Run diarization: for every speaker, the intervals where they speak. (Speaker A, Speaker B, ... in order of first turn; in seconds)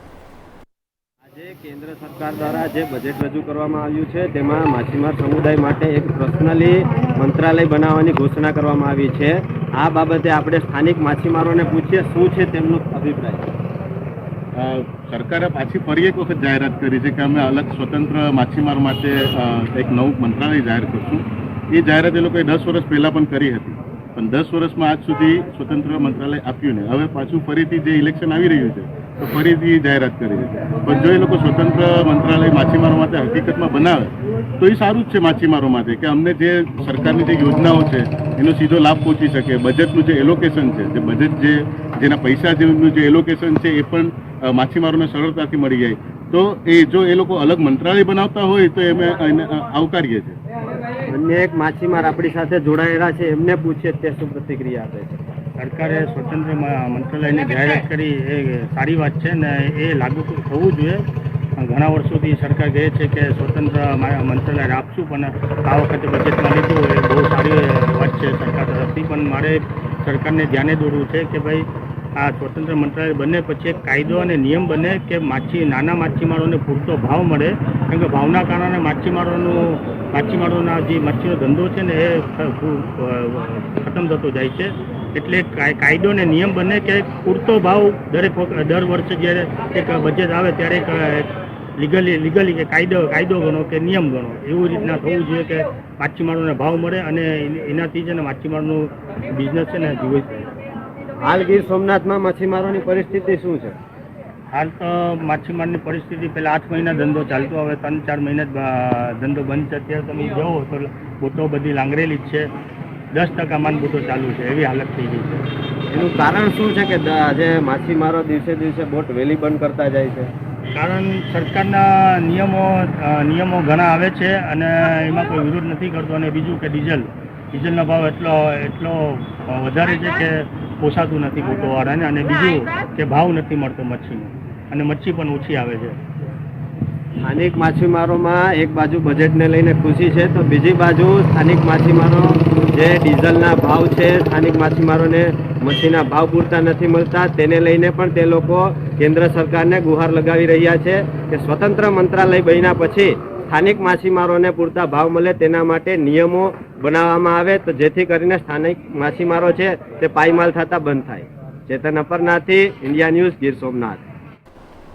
Speaker A: 1.2-13.5, 51.1-55.2, 101.2-103.8, 115.9-120.3, 137.2-164.0
Speaker B: 14.6-50.4
Speaker C: 55.6-61.0, 61.6-100.5, 104.5-112.5, 113.1-115.5, 120.8-136.0